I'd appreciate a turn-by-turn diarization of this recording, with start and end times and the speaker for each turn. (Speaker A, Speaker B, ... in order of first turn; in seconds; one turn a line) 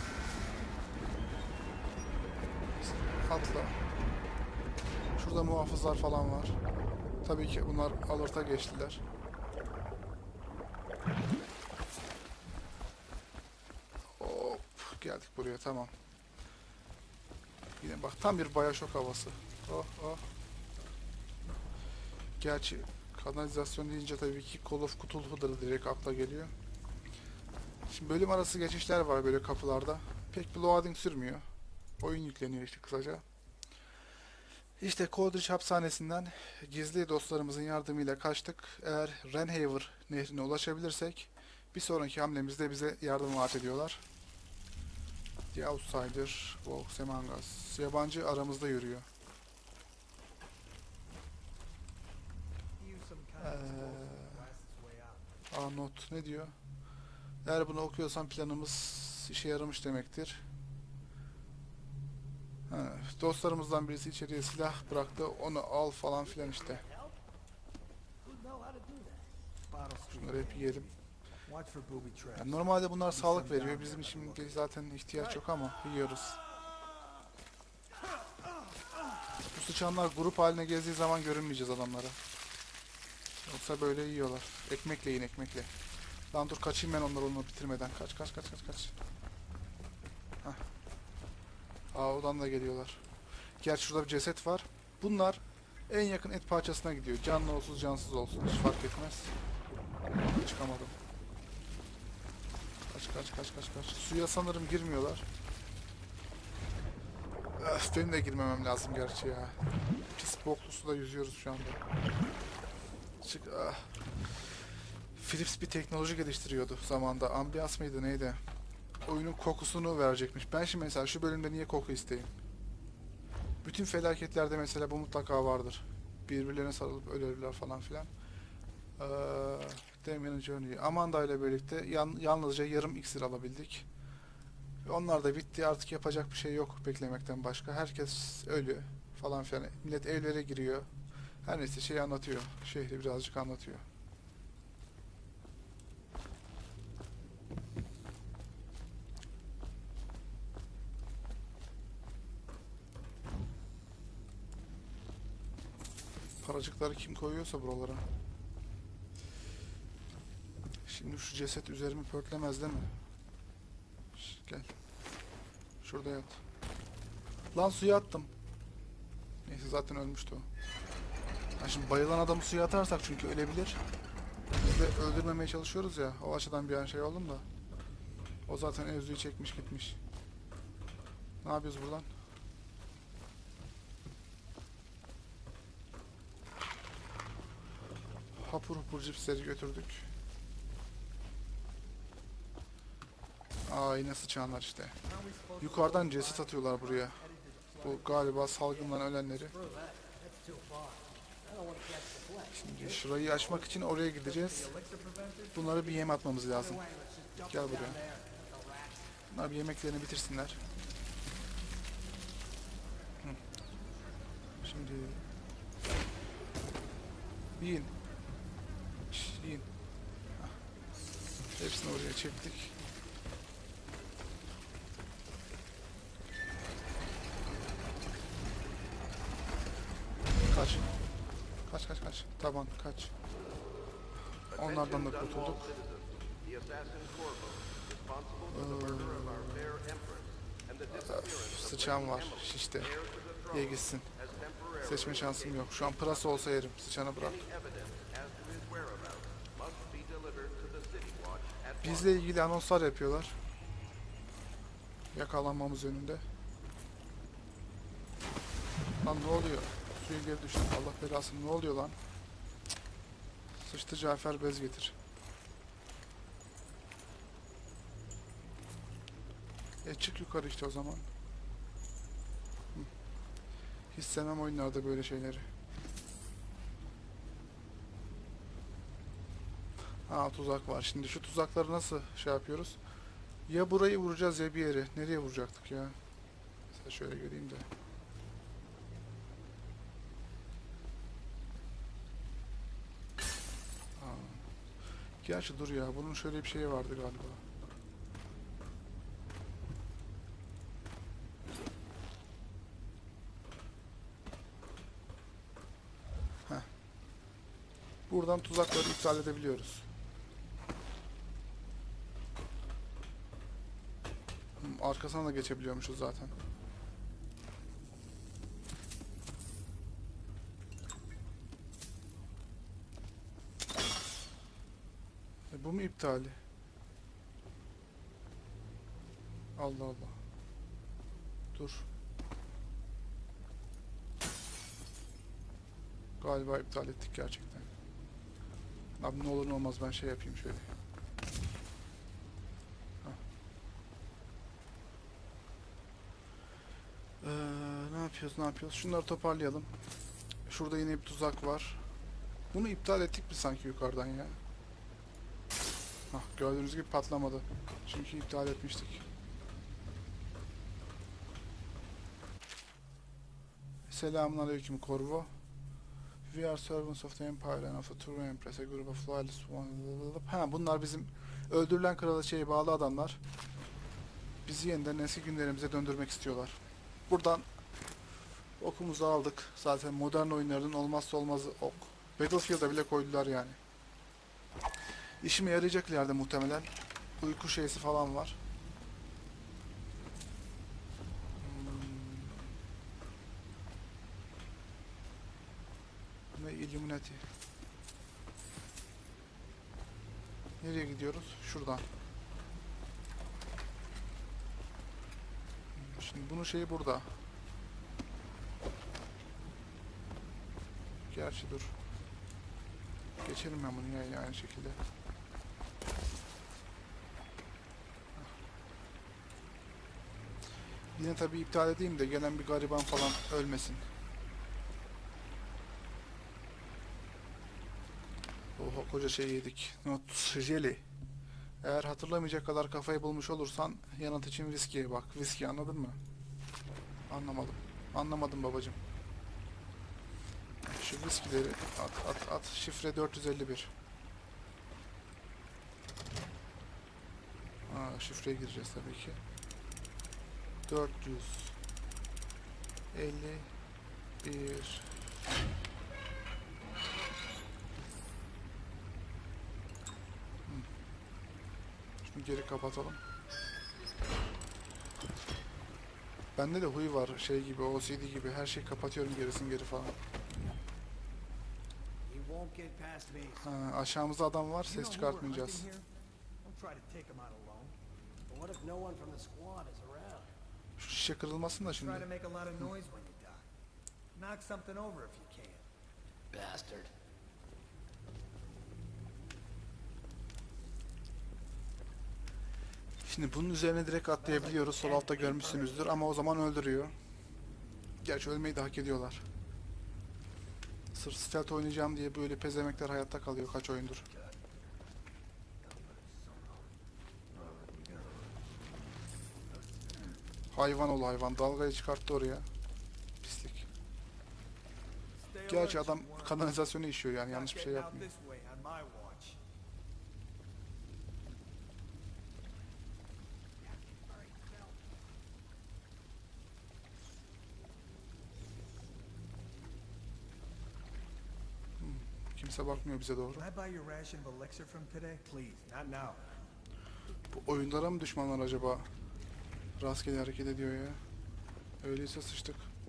Speaker A: 2.8-3.8
Speaker A: 5.2-6.6
Speaker A: 7.2-9.0
Speaker A: 14.2-15.9
Speaker A: 17.8-20.2
Speaker A: 22.4-26.5
Speaker A: 27.9-31.4
Speaker A: 32.0-33.2
Speaker A: 34.8-44.0
Speaker A: 45.5-49.0
Speaker B: 52.8-55.5
Speaker A: 53.4-54.4
Speaker A: 55.5-56.5
Speaker A: 57.4-60.4
Speaker A: 62.7-66.8
Speaker C: 66.1-67.2
Speaker C: 68.2-69.3
Speaker B: 69.7-74.1
Speaker A: 70.1-70.9
Speaker A: 72.3-76.4
Speaker C: 73.8-74.7
Speaker A: 79.5-82.2
Speaker A: 83.5-85.7
Speaker A: 86.3-88.9
Speaker A: 91.9-93.0
Speaker A: 93.6-99.3
Speaker A: 100.2-101.0
Speaker A: 102.9-105.2
Speaker A: 107.6-109.5
Speaker A: 110.1-111.8
Speaker A: 113.2-114.4
Speaker A: 115.1-118.4
Speaker A: 119.0-122.3
Speaker A: 123.6-128.1
Speaker A: 129.0-133.8
Speaker A: 134.8-140.9
Speaker A: 141.4-143.8
Speaker A: 156.4-158.0
Speaker A: 160.8-162.9
Speaker A: 164.1-164.7
Speaker A: 165.8-166.4
Speaker A: 167.5-168.3
Speaker A: 169.4-170.4
Speaker A: 171.6-173.8
Speaker A: 174.6-177.4
Speaker A: 178.5-180.0
Speaker A: 181.4-182.1
Speaker A: 188.3-190.0
Speaker A: 193.7-194.9
Speaker B: 195.0-198.6
Speaker A: 195.6-197.2
Speaker A: 197.8-199.5
Speaker C: 198.7-203.8
Speaker A: 202.5-204.7
Speaker B: 204.2-205.9
Speaker A: 205.5-206.8
Speaker C: 205.9-209.2
Speaker A: 207.5-208.0
Speaker A: 209.3-210.6
Speaker A: 214.6-215.2
Speaker A: 217.6-217.9
Speaker A: 219.1-219.7
Speaker A: 221.6-222.7
Speaker A: 230.5-230.9
Speaker A: 231.7-233.1
Speaker D: 234.5-246.6
Speaker A: 234.5-235.7
Speaker A: 238.5-239.8
Speaker A: 241.0-242.9
Speaker A: 243.5-244.1
Speaker A: 244.8-247.4
Speaker D: 247.2-252.2
Speaker A: 251.8-253.4
Speaker A: 255.1-256.2
Speaker A: 259.0-261.9
Speaker A: 263.6-264.9
Speaker A: 269.8-271.1
Speaker A: 273.9-275.5
Speaker A: 280.1-282.8
Speaker A: 283.5-285.9
Speaker A: 286.7-287.6
Speaker A: 294.0-294.4
Speaker A: 295.2-297.4
Speaker A: 308.1-309.9
Speaker A: 314.6-316.3
Speaker A: 325.5-326.4
Speaker A: 329.6-330.1
Speaker A: 331.5-331.9
Speaker A: 336.2-337.7
Speaker A: 339.0-340.6
Speaker A: 347.2-349.7
Speaker A: 350.4-351.8
Speaker A: 352.5-354.4
Speaker A: 356.1-359.0
Speaker A: 363.9-365.3
Speaker A: 366.3-373.2
Speaker A: 374.4-376.6
Speaker A: 377.1-377.4
Speaker A: 378.6-383.6
Speaker A: 385.2-388.4
Speaker A: 391.4-392.5
Speaker A: 396.4-397.2
Speaker A: 400.6-401.9
Speaker A: 405.7-407.1
Speaker A: 411.1-411.7
Speaker A: 413.2-414.8
Speaker A: 420.9-423.8
Speaker A: 428.6-430.8
Speaker A: 431.6-436.0
Speaker A: 437.1-438.8
Speaker A: 440.7-443.7
Speaker A: 447.7-449.2
Speaker A: 450.7-451.5
Speaker A: 452.9-453.5
Speaker A: 454.2-454.9
Speaker A: 462.0-463.0
Speaker A: 466.4-469.9
Speaker C: 472.0-473.5
Speaker A: 473.4-475.6
Speaker B: 474.6-475.9
Speaker B: 476.4-477.8
Speaker C: 478.3-480.3
Speaker A: 480.8-482.1
Speaker B: 481.6-483.4
Speaker B: 484.1-485.6
Speaker C: 486.3-486.9
Speaker A: 493.0-496.9
Speaker B: 494.6-495.5
Speaker C: 494.8-495.9
Speaker A: 498.0-499.2
Speaker A: 500.9-504.1
Speaker C: 504.1-504.4
Speaker C: 505.6-506.6
Speaker C: 507.3-508.3
Speaker A: 510.5-512.5
Speaker A: 513.2-513.7
Speaker B: 515.1-516.5
Speaker A: 515.5-518.1
Speaker B: 517.3-519.4
Speaker C: 523.6-524.8
Speaker A: 531.8-533.5
Speaker B: 533.3-536.2
Speaker A: 537.3-538.9
Speaker A: 539.8-541.0
Speaker A: 541.8-542.7